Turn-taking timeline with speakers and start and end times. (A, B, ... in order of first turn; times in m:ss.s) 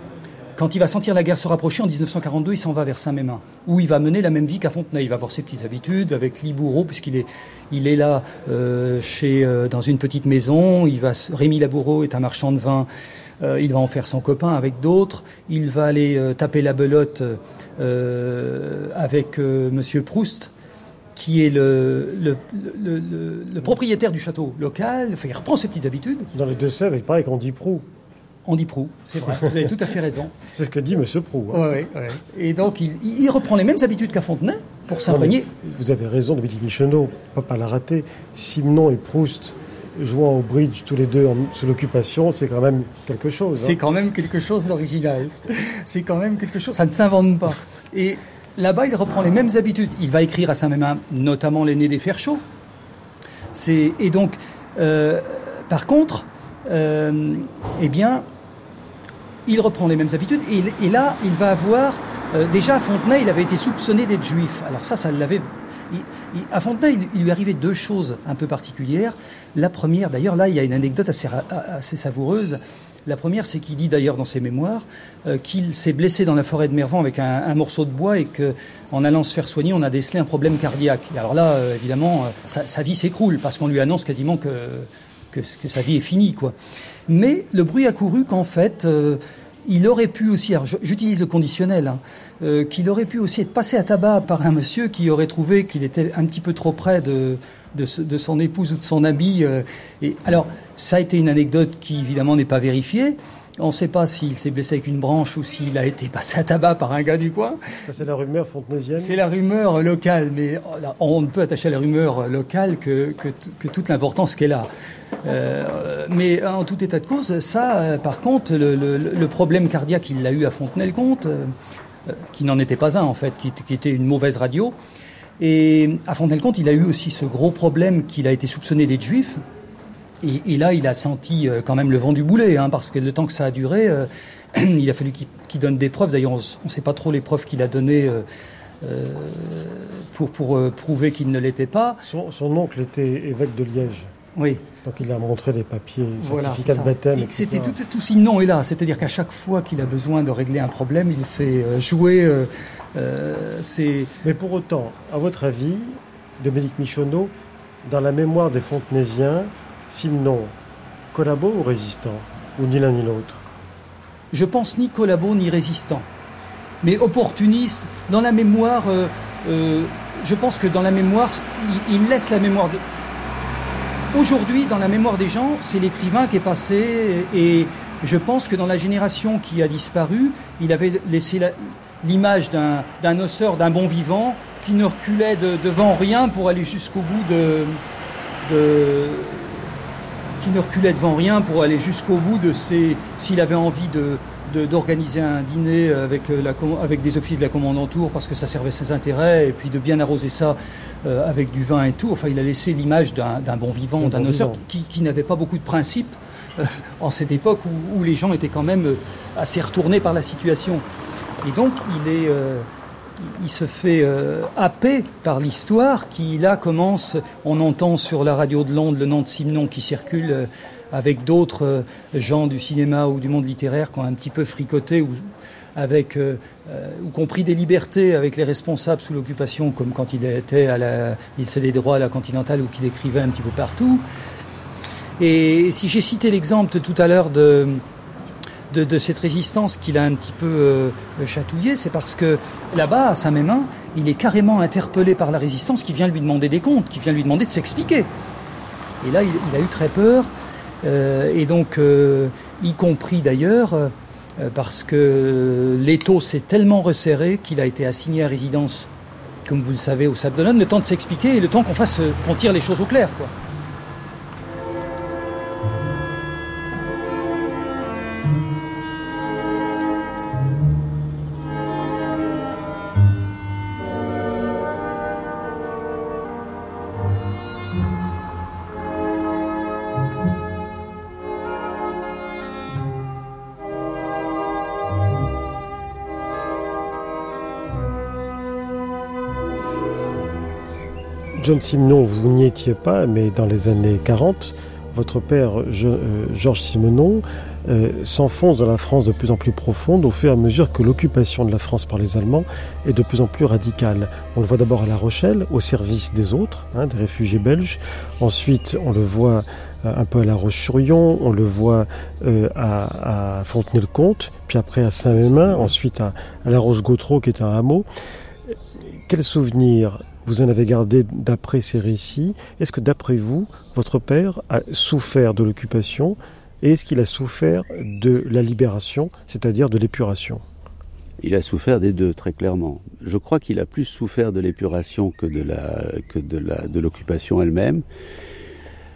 0:00.6-0:12.9 A
0:13.4-0:20.5 A
0:21.2-0:26.3 A
0:26.3-0:27.9 B
0:28.4-0:30.4 A
0:29.2-0:29.7 B
0:30.5-0:31.8 B
0:31.5-0:35.5 A
0:35.1-0:43.8 B
0:43.5-0:52.4 A
0:53.5-0:58.2 A
0:59.4-1:26.5 A
1:27.1-1:47.6 A
1:47.8-1:49.2 B
1:49.0-1:54.7 A
1:55.2-2:01.5 A
2:02.1-2:04.8 A
2:05.4-2:09.4 A
2:10.2-2:18.2 A
2:18.8-2:22.0 A
2:22.0-2:24.1 B
2:24.4-2:24.6 A
2:24.8-2:27.8 B
2:26.2-2:34.1 A
2:34.2-2:40.5 B
2:41.1-2:43.4 B
2:44.3-2:46.1 A
2:46.8-2:52.8 A
2:54.1-3:07.8 A
3:08.4-3:09.7 A
3:10.4-3:30.8 A
3:24.0-3:24.6 B
3:31.4-3:32.7 A
3:33.2-3:54.0 A
3:55.2-3:57.8 A
3:58.7-4:08.1 A
4:09.0-4:10.3 A
4:10.8-4:18.9 A
4:19.4-4:23.3 A
4:51.4-5:17.9 B
5:18.5-5:30.4 B
5:31.2-5:37.8 C